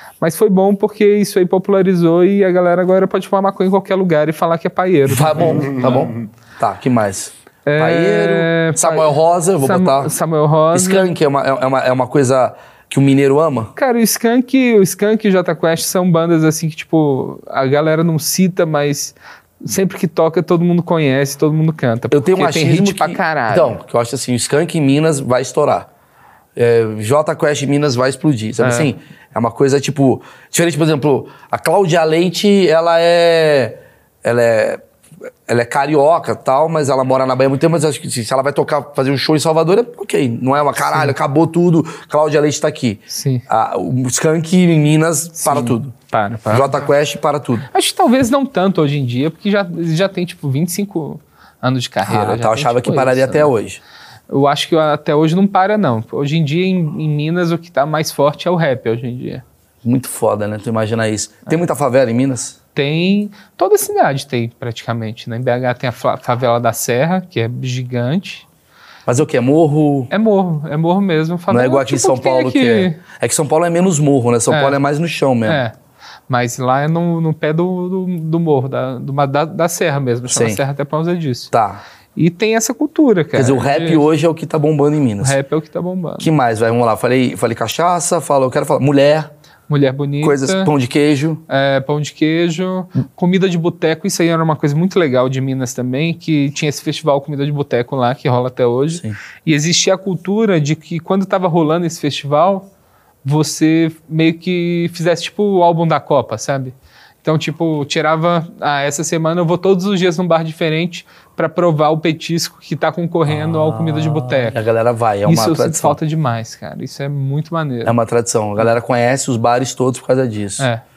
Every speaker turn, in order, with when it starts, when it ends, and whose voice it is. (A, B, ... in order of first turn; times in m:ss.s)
0:00.2-0:06.1 A
0:05.1-0:10.1 B
0:07.6-0:11.1 A
0:10.7-0:13.7 B
0:13.8-0:23.8 A
0:22.1-0:25.9 B
0:26.6-0:34.8 B
0:28.6-0:28.9 A
0:35.5-0:45.9 B
0:40.9-0:41.1 A
0:43.1-0:43.4 A
0:45.4-0:46.9 A
0:46.5-0:47.7 B
0:47.7-0:53.5 A
0:52.0-0:53.8 B
0:54.3-0:59.4 A
0:59.8-1:02.6 B
1:02.7-1:08.4 A
1:09.1-1:10.1 B
1:10.1-1:13.0 A
1:11.5-1:15.6 B
1:14.5-1:14.8 A
1:15.4-1:15.7 A
1:16.3-1:21.5 A
1:20.3-1:20.6 B
1:21.5-1:21.8 B
1:22.2-1:24.0 A
1:23.4-1:25.4 B
1:25.2-1:26.3 A
1:26.2-1:29.3 B
1:29.7-1:30.7 A
1:30.2-1:31.4 B
1:31.5-1:42.7 A
1:43.2-1:54.6 A
1:54.4-1:56.0 B
1:55.2-1:57.9 A
1:57.8-2:00.7 B